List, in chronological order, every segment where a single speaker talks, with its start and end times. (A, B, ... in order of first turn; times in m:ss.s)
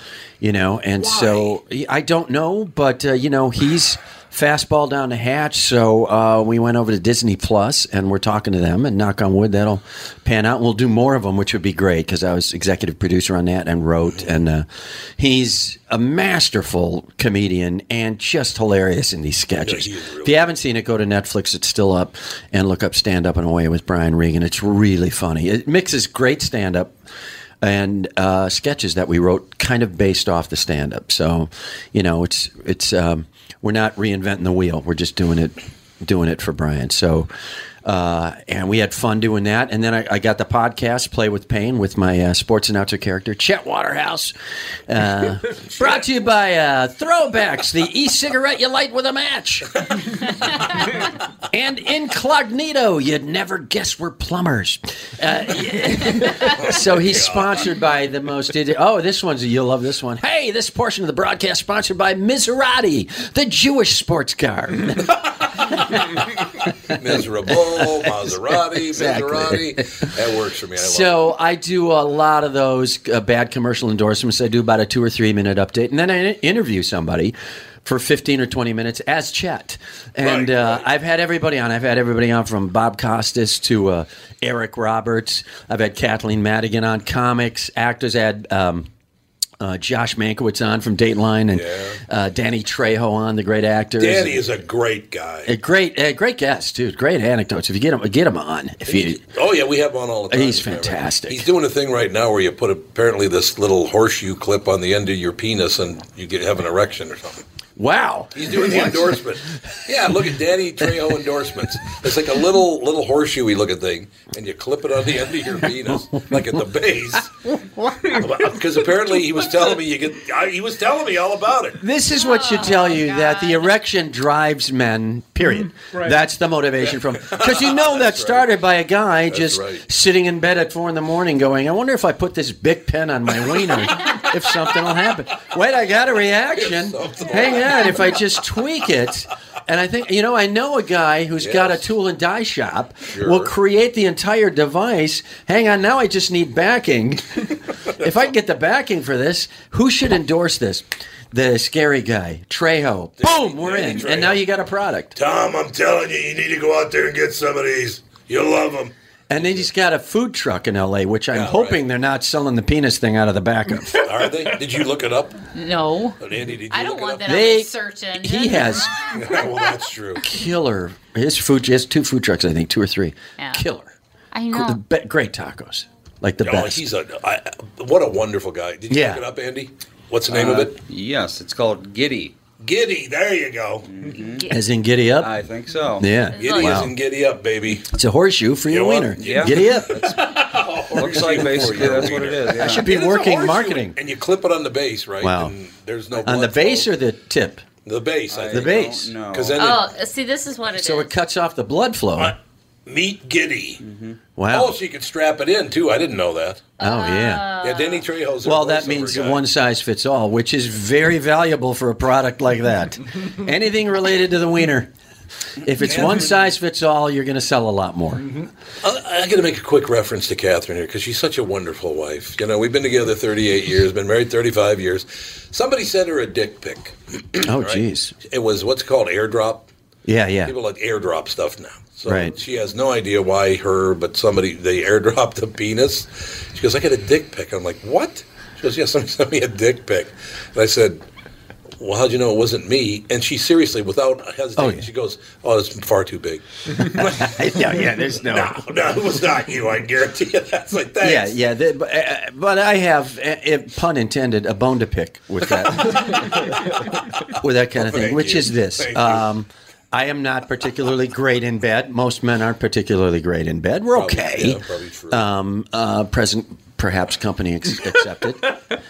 0:00.4-0:14.7 A
0:01.0-0:01.5 B
0:15.2-0:26.9 A
0:19.6-0:20.5 B
0:27.6-0:37.3 A
0:37.8-0:44.4 A
0:44.9-0:49.8 A
0:51.5-1:05.7 A
0:56.4-0:57.6 B
1:06.9-1:11.2 B
1:07.5-1:07.8 A
1:08.8-1:10.1 A
1:10.8-1:28.9 A
1:20.2-1:20.9 B
1:29.6-1:34.5 A
1:31.5-1:32.0 B
1:34.0-1:35.5 B
1:35.5-1:39.2 A
1:38.9-1:47.4 B
1:40.3-1:41.5 A
1:47.8-1:49.5 A
1:48.3-1:57.3 B
1:57.8-1:58.2 A
1:58.1-2:01.8 B
2:01.8-2:35.1 A
2:02.1-2:03.8 C
2:06.9-2:08.5 B
2:09.3-2:09.8 B
2:16.5-2:18.2 B
2:21.4-2:21.9 B
2:23.1-2:23.5 B
2:33.2-2:34.5 B
2:35.1-2:39.7 B
2:39.3-2:44.0 A
2:41.3-2:41.8 B
2:44.0-2:45.4 B
2:45.5-2:46.2 C
2:46.2-2:47.3 B
2:46.7-2:48.9 C
2:47.2-2:48.9 A
2:49.1-2:50.2 B
2:50.2-2:53.9 A
2:53.4-2:53.6 C
2:54.3-2:54.8 C
2:54.5-2:56.8 A
2:56.4-3:00.8 B
2:58.9-2:59.2 A
3:00.3-3:02.4 D
3:02.6-3:03.9 B
3:03.8-3:04.5 D
3:04.2-3:04.6 C
3:04.5-3:05.3 A
3:05.2-3:06.2 D
3:06.0-3:06.9 A
3:06.3-3:06.8 C
3:06.4-3:07.9 B
3:07.9-3:10.0 A
3:08.7-3:16.9 B
3:09.2-3:12.9 D
3:11.1-3:14.0 A
3:15.2-3:15.5 A
3:16.2-3:17.6 A
3:17.8-3:19.9 B
3:18.3-3:19.8 D
3:18.5-3:19.1 A
3:19.6-3:21.1 C
3:20.7-3:22.4 A
3:22.2-3:23.8 B
3:23.8-3:24.2 D
3:24.4-3:24.8 A
3:24.5-3:26.7 B
3:26.8-3:28.0 C
3:26.8-3:27.5 A
3:27.6-3:29.4 B
3:28.4-3:34.9 A
3:35.6-3:38.4 A
3:35.8-3:36.4 B
3:38.8-3:49.7 B
3:47.4-3:48.1 A
3:50.1-3:50.5 A
3:50.4-4:01.0 B
3:52.1-3:52.3 A
4:01.8-4:07.6 B
4:04.6-4:04.9 A
4:06.9-4:08.6 A
4:08.2-4:11.4 B
4:11.0-4:16.7 A
4:17.3-4:28.6 A
4:17.8-4:19.3 B
4:23.9-4:25.2 B